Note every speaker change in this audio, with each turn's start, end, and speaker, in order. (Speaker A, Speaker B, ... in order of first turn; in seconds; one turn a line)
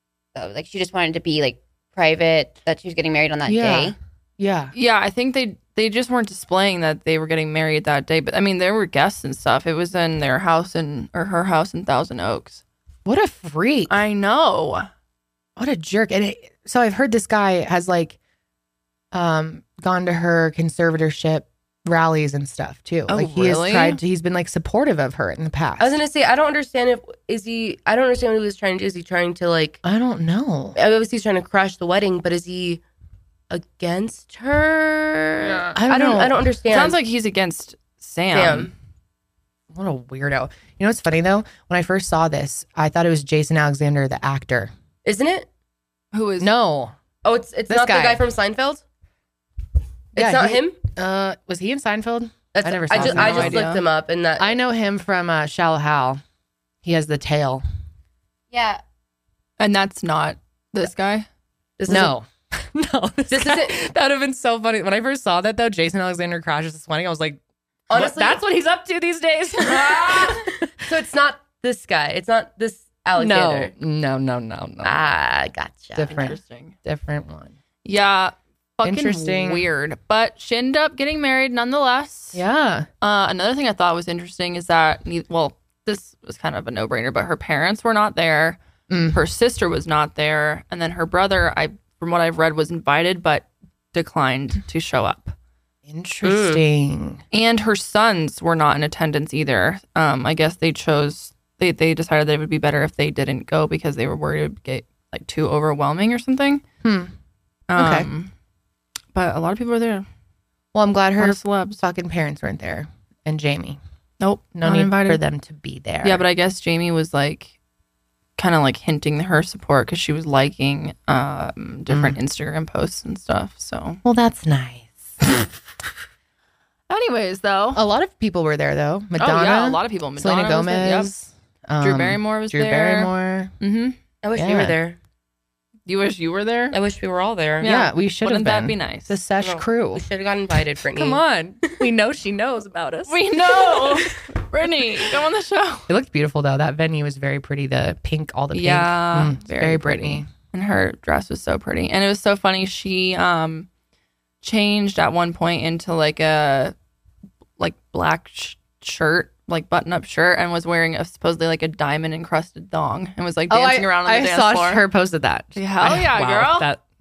Speaker A: 0.3-3.9
Speaker B: 3.4-4.7
Speaker C: 4.7-12.6
Speaker B: 13.0-14.0
Speaker C: 13.9-14.9
Speaker B: 15.6-18.1
Speaker B: 19.1-26.0
Speaker C: 23.1-24.0
Speaker D: 25.8-29.8
Speaker B: 29.8-30.8
Speaker D: 30.7-32.8
Speaker D: 33.5-37.0
Speaker B: 35.7-36.3
Speaker C: 36.7-38.7
Speaker D: 38.3-38.7
Speaker B: 39.7-44.7
Speaker D: 45.0-45.5
Speaker C: 46.1-46.5
Speaker B: 46.4-46.9
Speaker D: 47.2-48.8
Speaker B: 47.7-48.2
Speaker D: 50.1-50.8
Speaker B: 50.1-53.6
Speaker D: 52.5-54.6
Speaker C: 52.9-53.8
Speaker B: 54.4-56.2
Speaker B: 56.8-57.6
Speaker A: 58.5-58.8
Speaker C: 59.6-61.3
Speaker D: 61.8-62.1
Speaker B: 61.9-67.4
Speaker D: 63.3-63.8
Speaker D: 67.9-68.4
Speaker B: 67.9-70.8
Speaker C: 69.7-70.4
Speaker D: 70.1-73.7
Speaker B: 73.2-75.1
Speaker D: 74.8-76.3
Speaker B: 75.9-77.5
Speaker C: 76.1-76.7
Speaker C: 77.8-82.4
Speaker B: 78.8-79.7
Speaker B: 82.3-82.9
Speaker C: 83.0-88.6
Speaker B: 88.9-89.2
Speaker C: 89.1-95.3
Speaker B: 95.8-97.2
Speaker D: 96.2-96.6
Speaker C: 97.3-106.6
Speaker B: 106.8-107.1
Speaker C: 107.7-108.3
Speaker B: 107.8-108.1
Speaker C: 109.1-110.0
Speaker B: 110.7-113.8
Speaker C: 111.2-111.8
Speaker C: 114.2-115.2
Speaker B: 114.5-116.2
Speaker C: 116.0-117.5
Speaker C: 118.4-124.0
Speaker B: 121.9-122.2
Speaker B: 124.0-125.2
Speaker C: 126.9-127.8
Speaker B: 127.7-133.5
Speaker C: 129.2-131.1
Speaker C: 131.8-134.0
Speaker D: 134.2-135.0
Speaker B: 134.3-134.7
Speaker C: 135.8-136.8
Speaker D: 136.7-137.7
Speaker C: 137.6-139.2
Speaker B: 137.6-140.0
Speaker D: 139.4-141.7
Speaker B: 140.9-143.2
Speaker C: 143.1-145.9
Speaker B: 145.9-150.3
Speaker C: 148.5-153.7
Speaker C: 154.4-156.7
Speaker C: 157.6-164.8
Speaker B: 163.5-166.8
Speaker C: 165.5-166.7